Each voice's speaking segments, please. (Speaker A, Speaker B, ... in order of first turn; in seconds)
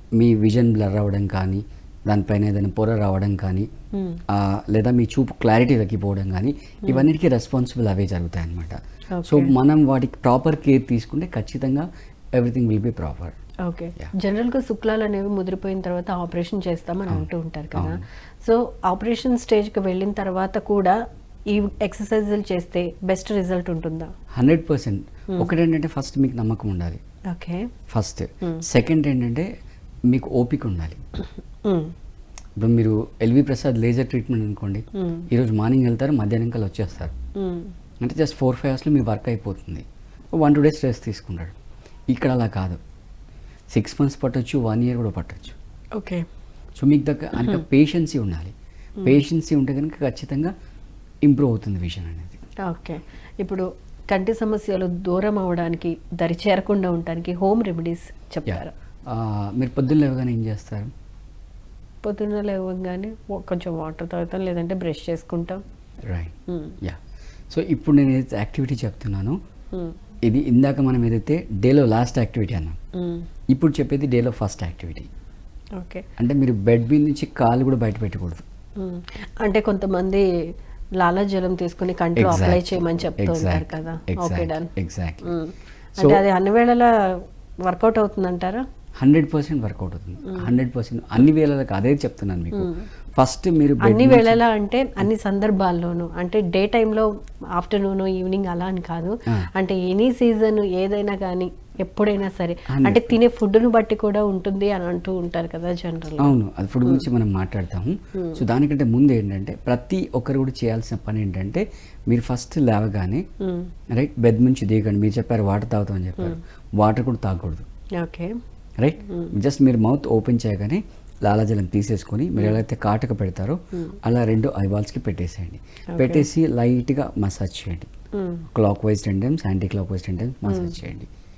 Speaker A: 0.2-3.7, 4.3-13.3, 17.1-18.0, 24.3-27.0, 27.9-29.5, 30.1-31.0, 32.6-37.1, 38.0-39.8, 40.4-41.5, 42.1-42.8, 43.7-45.5, 46.8-50.5, 51.2-52.4, 58.5-60.9, 66.1-67.0, 67.5-69.4, 70.2-72.8, 73.5-75.1, 76.2-78.4, 82.2-85.3, 86.0-86.2, 89.0-94.4, 102.7-103.2, 106.2-113.2, 113.9-117.6, 118.8-127.9, 128.5-131.1
Speaker B: 3.9-4.2, 9.1-9.5, 13.6-21.0, 21.5-24.1, 27.3-27.7, 31.6-31.9, 34.9-35.3, 37.4-37.7, 45.9-46.2, 52.6-58.7, 62.0-65.6, 66.5-66.8, 72.9-73.3, 75.8-76.0, 78.8-80.2, 81.0-84.7, 85.2-86.9, 87.7-88.6, 92.5-92.8, 93.8-106.3, 108.1-108.4, 113.4-113.7, 118.0-118.3, 119.1-119.3, 125.9-126.3, 128.1-128.5, 130.4-130.7